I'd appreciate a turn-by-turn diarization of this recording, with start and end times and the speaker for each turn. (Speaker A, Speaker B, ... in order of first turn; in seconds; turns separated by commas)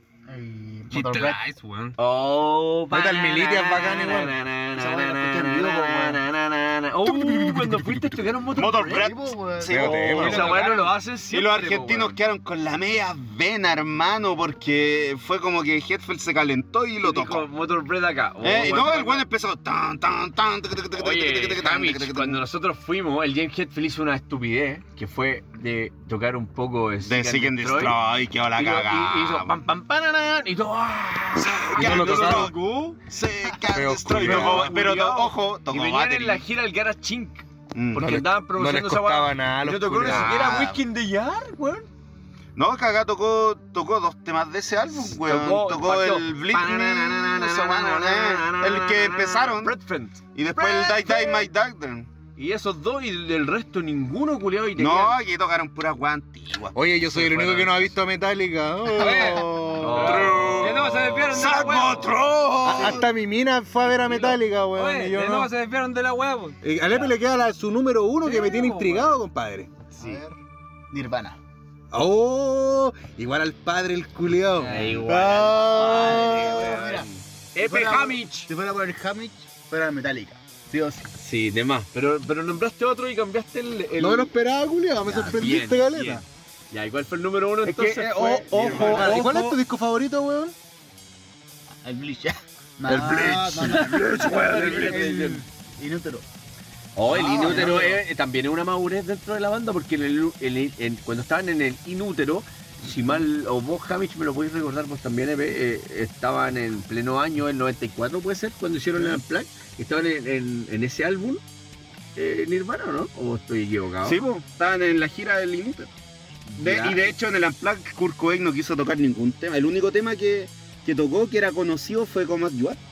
Speaker A: 0.3-1.4, Speaker B: 0.9-2.0, Speaker C: 2.0-9.1, Speaker D: 2.9-4.4, Speaker A: 4.7-6.2, Speaker D: 7.0-8.3, Speaker E: 8.5-10.3, Speaker A: 8.9-10.1, Speaker D: 9.6-10.6, Speaker C: 9.7-12.2, Speaker B: 10.1-10.9, Speaker E: 11.3-17.5, Speaker C: 17.0-19.3, Speaker E: 18.4-22.4, Speaker C: 20.9-28.0, Speaker E: 27.0-29.6, Speaker C: 28.5-33.0, Speaker E: 31.6-36.4, Speaker D: 31.7-32.5, Speaker D: 33.7-34.8, Speaker C: 34.1-41.9, Speaker E: 37.7-38.2, Speaker D: 37.9-40.6, Speaker E: 40.0-40.8, Speaker E: 42.5-49.8, Speaker C: 44.9-51.5, Speaker E: 50.3-52.1, Speaker C: 52.4-55.2, Speaker E: 54.8-56.8, Speaker D: 56.7-60.5, Speaker C: 57.1-57.9, Speaker B: 58.9-62.1, Speaker C: 59.7-61.5, Speaker E: 59.8-63.0, Speaker D: 62.6-65.5, Speaker B: 63.9-67.0, Speaker D: 66.6-69.8, Speaker B: 68.2-69.2, Speaker A: 70.0-70.3, Speaker A: 70.9-71.4, Speaker D: 71.9-76.8, Speaker B: 74.5-75.1, Speaker C: 74.7-78.5, Speaker A: 75.2-81.1, Speaker C: 81.2-84.3, Speaker D: 84.0-86.2, Speaker C: 85.0-89.5, Speaker E: 87.6-89.2, Speaker D: 88.0-90.5, Speaker A: 91.8-96.2, Speaker D: 92.9-94.0, Speaker C: 93.3-95.4, Speaker B: 94.4-95.0, Speaker C: 97.0-111.4, Speaker A: 97.0-98.0, Speaker D: 97.5-97.8, Speaker C: 112.2-114.2, Speaker E: 114.0-115.9, Speaker C: 116.5-117.1, Speaker E: 116.6-122.8